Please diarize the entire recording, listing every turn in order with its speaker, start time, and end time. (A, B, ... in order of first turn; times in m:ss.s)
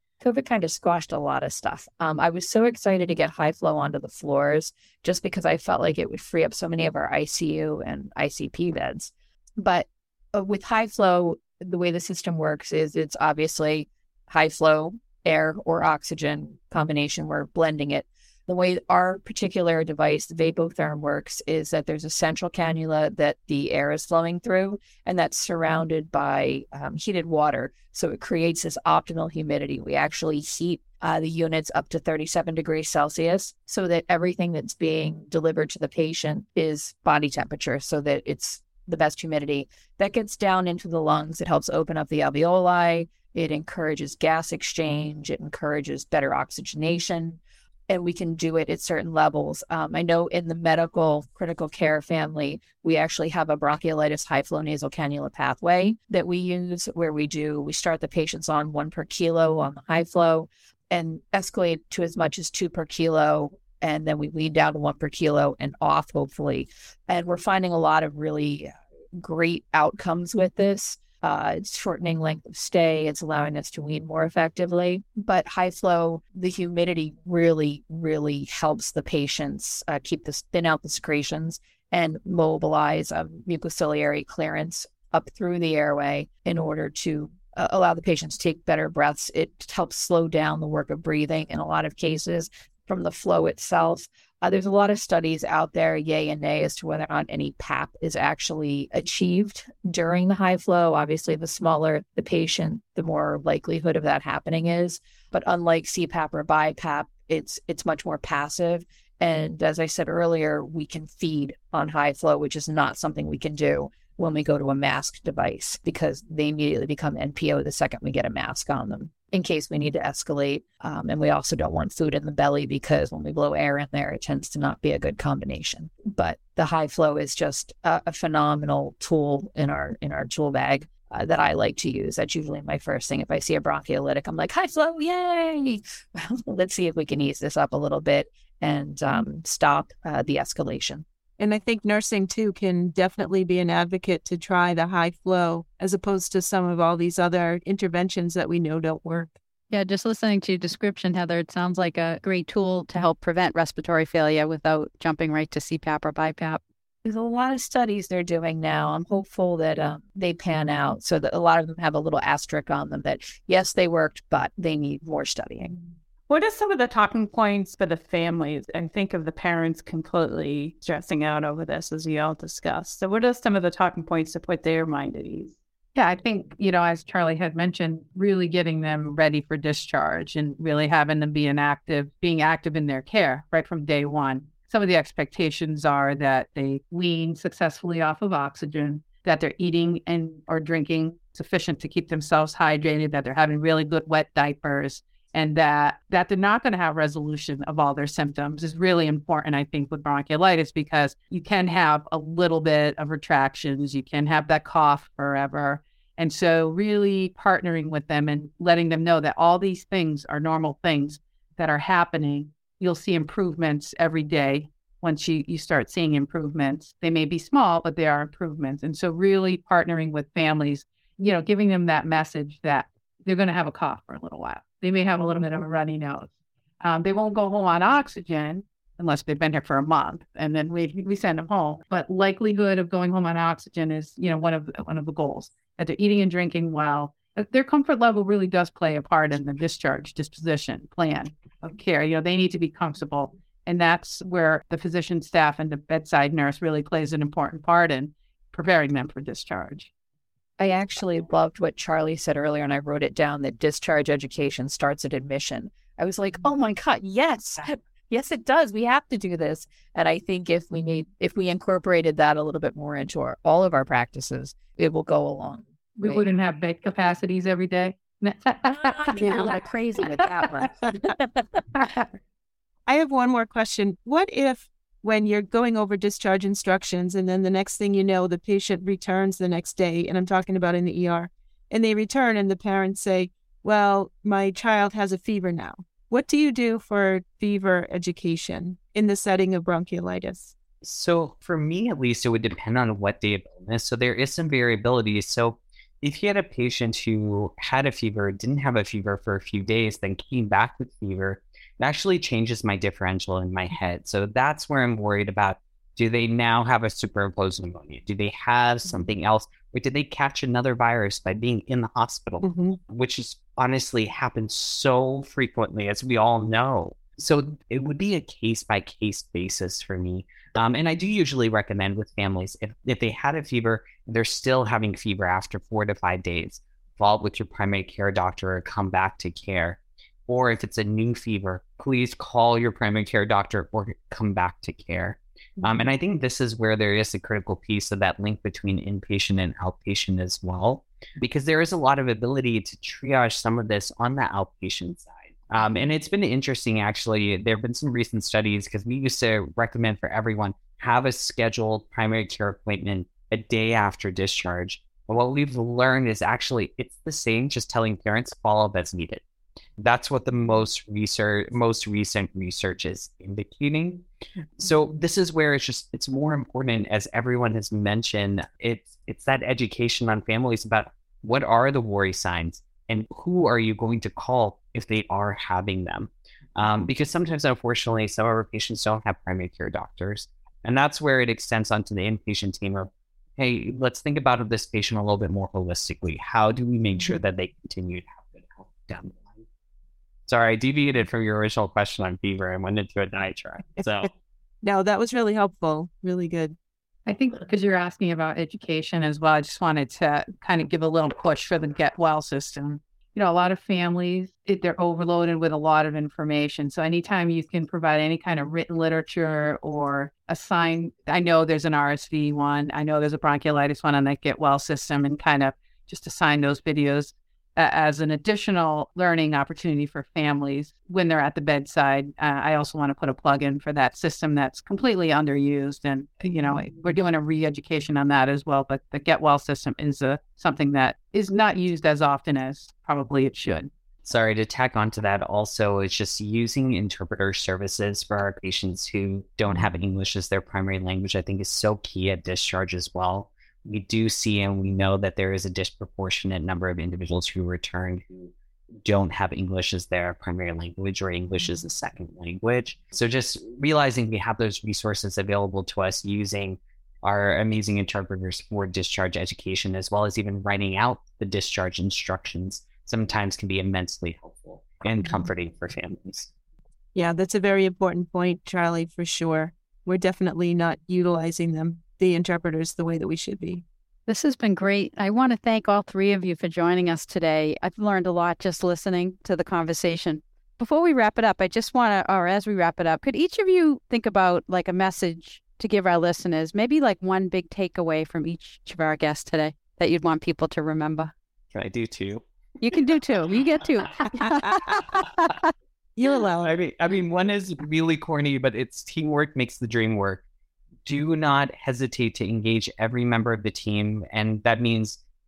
0:00.2-2:21.0 A
2:21.4-2:29.3 B
2:29.7-2:36.6 C
2:37.0-2:45.8 A
2:46.3-2:55.6 D
2:55.9-4:09.9 E
4:10.6-4:26.2 A
4:26.0-4:30.7 E
4:28.7-4:31.4 A
4:31.7-4:32.1 E
4:32.9-4:50.5 B
4:50.8-5:59.2 F
5:12.4-5:12.8 B
5:59.8-6:04.0 F
6:04.6-6:29.4 F
6:30.3-6:34.1 F
6:33.8-6:34.1 B
6:34.6-6:36.6 B
6:37.0-7:13.7 E
7:14.0-7:28.3 F
7:28.8-7:46.3 F
7:46.9-7:53.6 B
7:54.1-8:11.1 C
8:11.5-8:12.2 F
8:12.6-8:15.4 C
8:16.0-8:16.3 B
8:16.1-8:20.2 F
8:20.8-8:25.0 F